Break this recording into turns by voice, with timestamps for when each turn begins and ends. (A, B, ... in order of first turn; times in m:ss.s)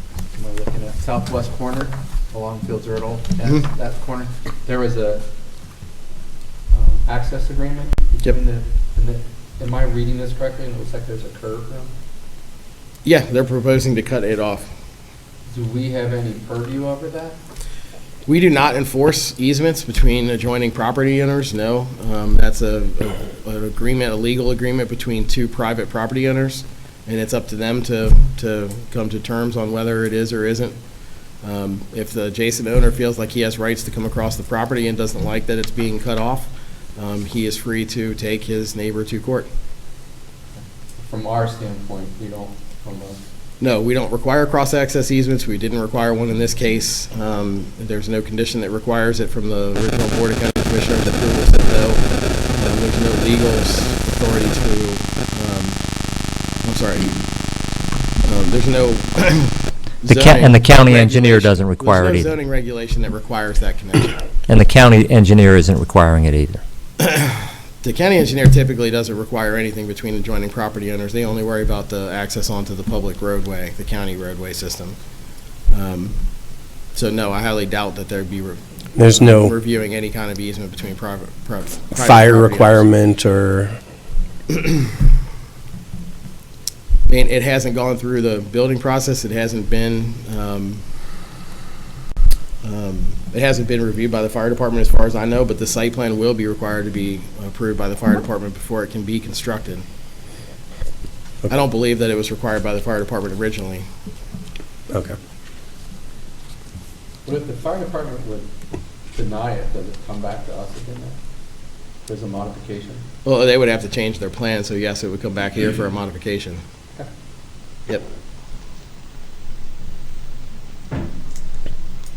0:00.3-0:05.3 A
0:06.7-0:11.9 A
0:13.0-0:14.7 B
0:15.5-0:17.4 A
0:18.3-0:30.8 B
0:31.4-0:39.5 B
0:41.0-0:43.2 A
0:43.6-0:55.8 B
0:56.6-0:57.2 B
0:58.2-1:04.2 B
1:00.1-1:02.3 C
1:04.5-1:06.6 C
1:07.0-1:15.0 B
1:15.7-1:16.2 B
1:16.9-1:22.9 B
1:19.0-1:19.5 D
1:22.0-1:23.8 D
1:24.5-1:24.8 B
1:27.1-1:30.8 B
1:32.6-1:39.8 B
1:41.5-1:43.9 B
1:44.9-1:45.2 D
1:47.2-1:48.5 A
1:49.1-1:51.2 A
1:52.0-1:53.0 A
1:53.2-1:56.6 B